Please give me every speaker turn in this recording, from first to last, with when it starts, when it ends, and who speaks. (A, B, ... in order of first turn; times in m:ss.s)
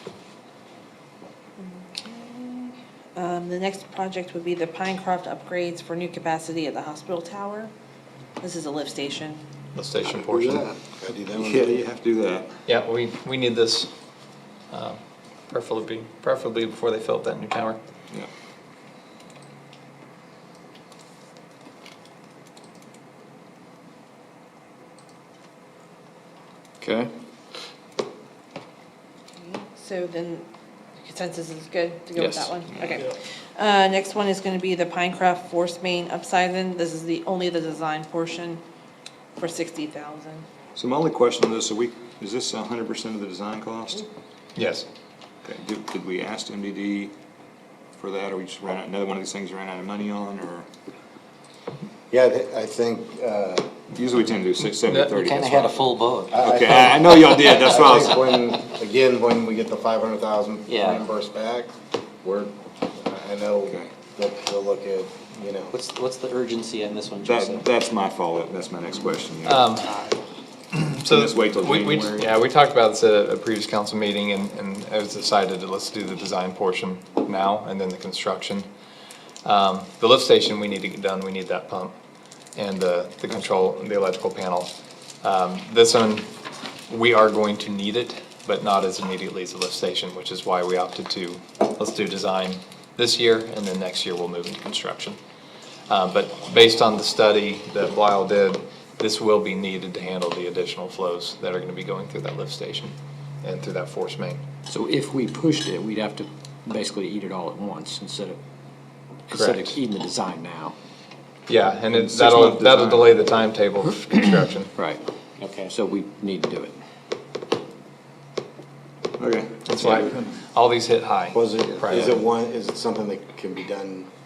0:01.6-0:07.7 A
0:08.4-0:09.4 A
0:09.7-0:10.7 B
0:10.1-0:11.8 C
0:11.3-0:12.5 D
0:12.6-0:13.9 B
0:14.7-0:17.8 B
0:26.8-0:27.1 E
0:29.4-0:30.4 A
0:31.0-0:38.6 A
0:32.2-0:32.5 E
0:32.7-0:33.0 D
0:39.4-0:40.4 A
0:40.8-0:44.0 D
0:44.6-0:44.9 B
0:45.4-0:47.1 D
0:48.0-0:50.7 D
0:52.1-0:53.7 C
0:53.9-0:58.2 D
0:55.1-0:57.0 F
0:56.3-1:01.7 C
1:00.7-1:01.0 F
1:02.2-1:05.8 C
1:05.7-1:07.6 F
1:07.2-1:09.7 D
1:09.4-1:09.9 B
1:10.7-1:18.7 B
1:11.1-1:12.3 D
1:19.4-1:21.9 B
1:22.5-1:26.3 B
1:26.9-1:35.2 B
1:35.9-1:44.4 B
1:44.7-1:48.4 E
1:49.3-1:50.7 E
1:49.3-1:49.7 B
1:51.5-1:52.1 E
1:51.5-1:54.6 B
1:51.9-1:53.3 D
1:53.8-1:55.0 E
1:55.4-1:55.7 F
1:55.6-1:56.8 E
1:59.2-2:00.3 D
1:59.6-2:01.0 B
1:59.8-2:00.2 E
2:01.0-2:02.1 E
2:01.3-2:04.1 C